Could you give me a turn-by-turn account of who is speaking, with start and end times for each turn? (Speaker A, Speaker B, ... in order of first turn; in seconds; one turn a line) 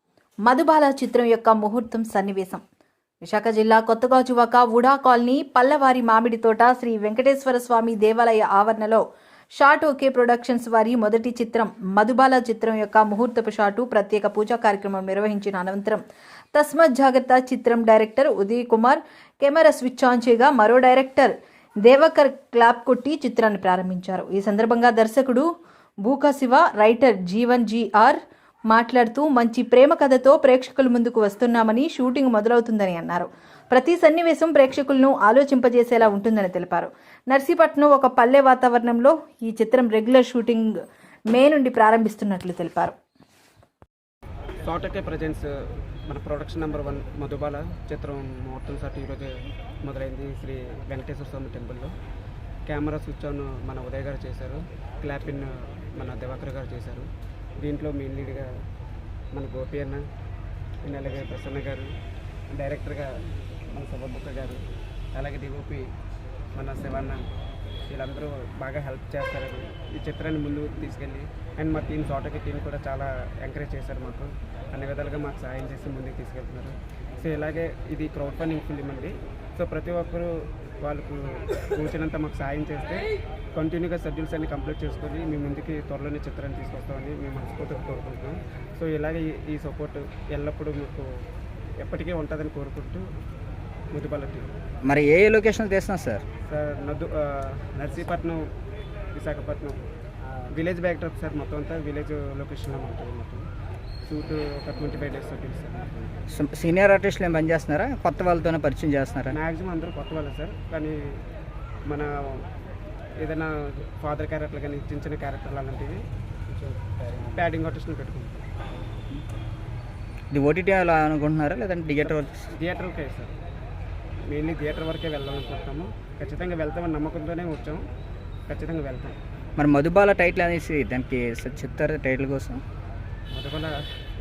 Speaker A: 0.5-2.6
Speaker A: 3.2-9.0
Speaker A: 9.6-16.0
Speaker A: 16.5-25.5
Speaker A: 26.0-28.2
Speaker A: 28.7-40.7
Speaker A: 41.3-43.0
Speaker B: 44.6-45.5
Speaker B: 46.1-49.3
Speaker B: 49.8-51.9
Speaker B: 52.7-57.1
Speaker B: 57.6-58.5
Speaker B: 59.3-60.0
Speaker B: 60.8-61.9
Speaker B: 62.5-63.1
Speaker B: 63.7-64.6
Speaker B: 65.1-65.9
Speaker B: 66.5-67.2
Speaker B: 67.9-91.1
Speaker B: 91.8-93.1
Speaker B: 93.9-94.5
Speaker C: 94.8-96.2
Speaker B: 96.5-98.5
Speaker B: 99.1-99.8
Speaker B: 100.5-103.5
Speaker B: 104.1-106.2
Speaker C: 106.3-109.4
Speaker B: 109.3-111.0
Speaker B: 111.9-112.4
Speaker B: 113.2-118.5
Speaker C: 120.3-122.4
Speaker B: 122.0-123.3
Speaker B: 124.3-127.8
Speaker B: 128.5-129.2
Speaker C: 129.6-132.6
Speaker B: 133.3-133.8